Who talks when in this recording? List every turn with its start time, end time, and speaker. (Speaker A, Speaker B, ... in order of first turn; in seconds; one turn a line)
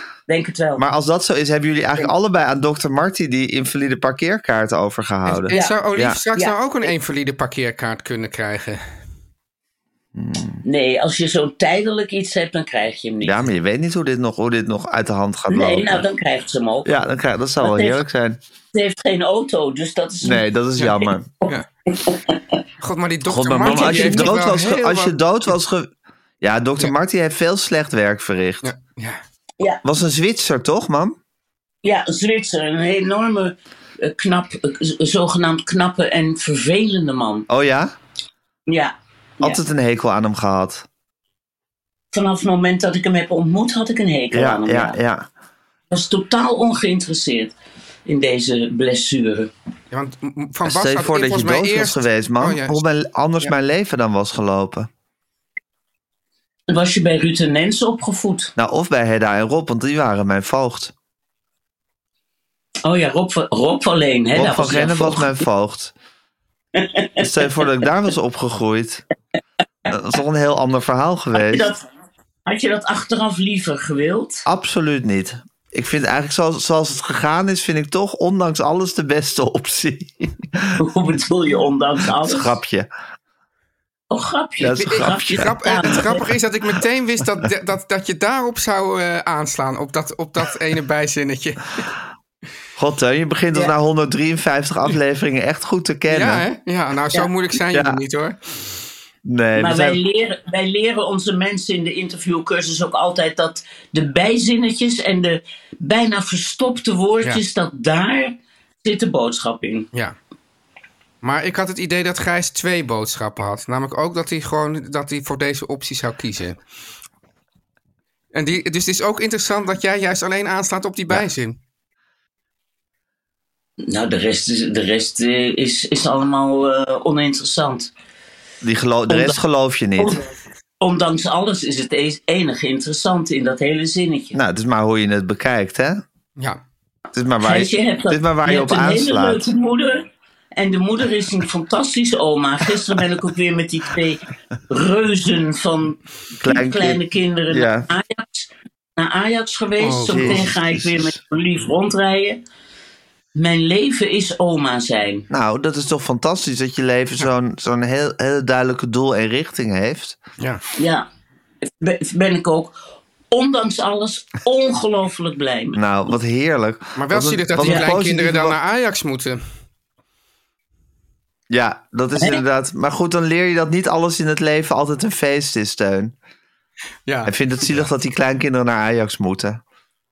Speaker A: 0.3-0.8
Speaker B: 0.8-6.2
Speaker C: 5.2-8.8
Speaker A: 5.5-5.8
Speaker B: 10.1-10.6
Speaker A: 10.6-13.4
Speaker B: 13.2-16.0
Speaker A: 15.5-16.9
Speaker B: 16.9-18.4
Speaker A: 17.6-18.0
Speaker A: 18.7-20.4
Speaker B: 20.2-21.3
Speaker A: 21.4-22.4
Speaker C: 22.8-25.1
Speaker B: 23.3-25.9
Speaker A: 23.6-24.3
Speaker B: 26.4-28.7
Speaker C: 28.6-29.2
Speaker B: 29.8-31.2
Speaker A: 31.8-37.5
Speaker B: 37.5-37.9
Speaker A: 38.7-39.6
Speaker B: 39.4-40.9
Speaker A: 42.1-45.0
Speaker B: 44.3-45.3
Speaker A: 45.9-47.5
Speaker A: 48.0-49.5
Speaker C: 49.9-52.8
Speaker B: 50.6-54.9
Speaker A: 56.7-58.5
Speaker B: 58.5-60.9
Speaker A: 62.8-65.4
Speaker B: 64.3-65.9
Speaker A: 66.8-67.5
Speaker B: 67.2-69.0
Speaker B: 69.9-71.7
Speaker A: 71.3-71.8
Speaker A: 72.5-74.4
Speaker B: 74.5-80.8
Speaker A: 80.8-82.5
Speaker B: 82.2-82.9
Speaker A: 84.1-86.2
Speaker B: 84.6-85.5
Speaker C: 84.8-91.9
Speaker B: 92.8-96.4
Speaker C: 96.1-98.4
Speaker B: 97.7-98.0
Speaker B: 99.2-100.0
Speaker A: 99.5-109.9
Speaker C: 111.2-116.6
Speaker C: 118.3-121.6
Speaker A: 123.9-127.9
Speaker B: 128.6-130.2
Speaker A: 129.1-129.4
Speaker A: 130.0-134.4
Speaker B: 134.3-136.0
Speaker B: 137.1-139.5
Speaker A: 137.4-152.4
Speaker B: 146.4-147.9
Speaker C: 149.8-150.4
Speaker B: 150.1-151.2
Speaker A: 153.3-155.2
Speaker B: 155.3-160.2
Speaker A: 160.8-161.1
Speaker A: 161.7-162.8
Speaker A: 163.3-165.8
Speaker B: 165.7-168.6
Speaker C: 167.0-169.4
Speaker A: 167.6-167.9
Speaker B: 171.5-176.1
Speaker C: 177.1-177.9
Speaker B: 177.2-179.6